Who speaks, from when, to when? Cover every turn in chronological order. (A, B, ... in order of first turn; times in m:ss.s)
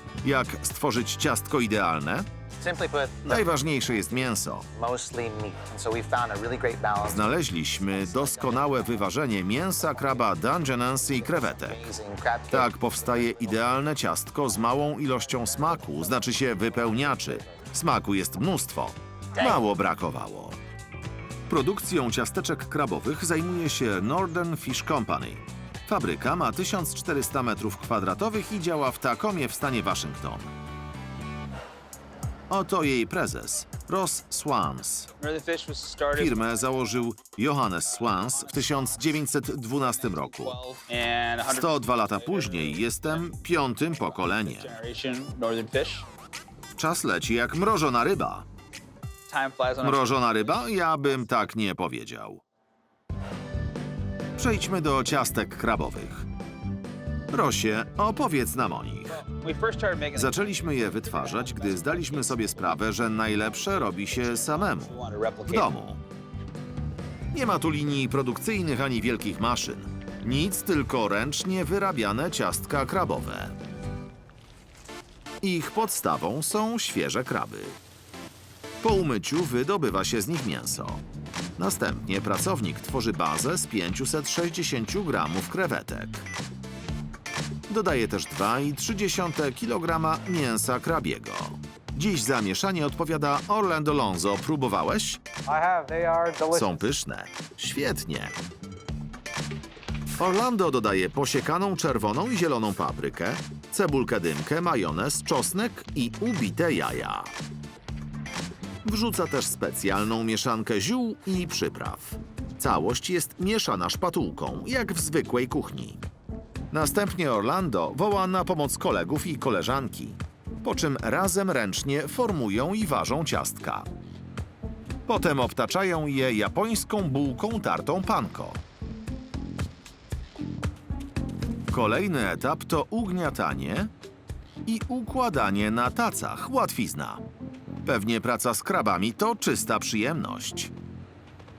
0:00.2-0:02.3 A
0:02.6-0:09.1 B
0:03.2-0:04.7 A
0:07.0-0:11.9 A
0:09.9-0:13.8 B
0:12.5-0:20.6 A
0:15.1-0:17.7 B
0:21.5-0:30.5 A
0:32.5-0:35.1 A
0:35.2-0:37.1 C
0:36.1-0:40.6 A
0:37.8-0:46.1 C
0:41.4-0:44.8 A
0:46.8-0:48.4 A
0:49.3-0:51.2 C
0:49.8-0:52.4 A
0:54.4-0:56.2 A
0:57.3-0:59.2 A
0:59.1-1:05.7 C
1:00.1-1:04.9 A
1:05.5-1:06.0 A
1:07.3-1:13.6 A
1:15.4-1:17.8 A
1:18.8-1:21.0 A
1:21.6-1:26.3 A
1:27.7-1:35.2 A
1:35.5-1:36.8 C
1:36.5-1:38.4 A
1:40.2-1:47.3 A
1:48.8-1:56.0 A
1:56.7-2:03.9 A
2:05.1-2:08.6 A
2:11.7-2:13.9 A
2:14.6-2:17.2 A
2:17.8-2:20.7 A